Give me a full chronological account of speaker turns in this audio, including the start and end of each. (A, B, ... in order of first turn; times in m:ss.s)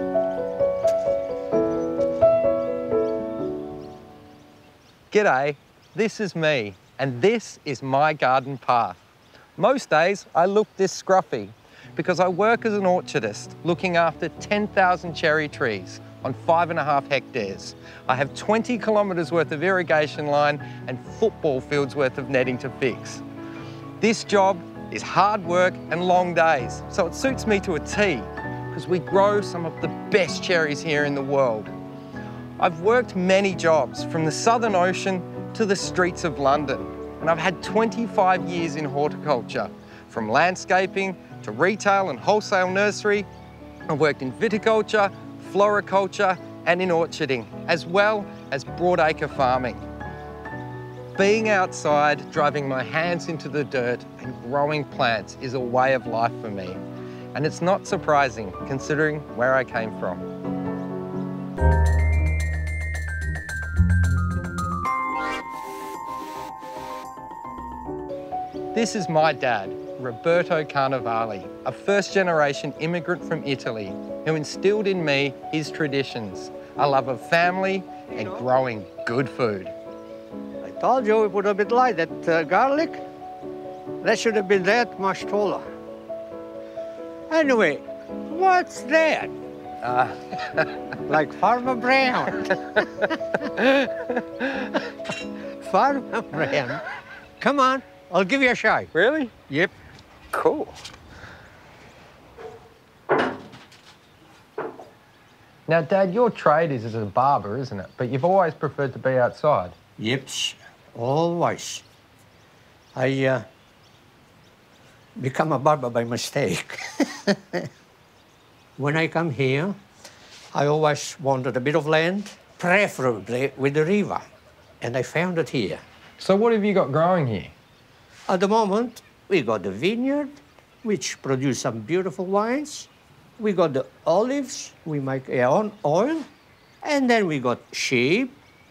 0:05.1-0:09.0 A
0:09.6-0:23.2 A
0:24.0-0:31.7 A
0:32.6-0:43.3 A
0:43.9-0:49.8 A
0:51.1-0:56.8 A
0:57.3-1:00.2 A
1:08.7-1:19.7 A
1:20.6-1:23.0 B
1:24.0-1:25.7 B
1:27.3-1:29.3 B
1:29.8-1:30.7 A
1:31.1-1:33.0 B
1:33.7-1:33.9 A
1:35.6-1:36.8 B
1:37.4-1:38.9 B
1:38.9-1:39.3 A
1:40.3-1:40.8 A
1:45.7-1:49.8 A
1:50.0-1:51.8 B
1:52.9-1:53.4 B
1:55.2-1:57.6 B
1:58.8-1:59.8 B
2:00.5-2:04.3 B
2:04.8-2:05.8 B
2:06.2-2:07.5 A
2:08.3-2:16.3 B
2:16.8-2:18.4 B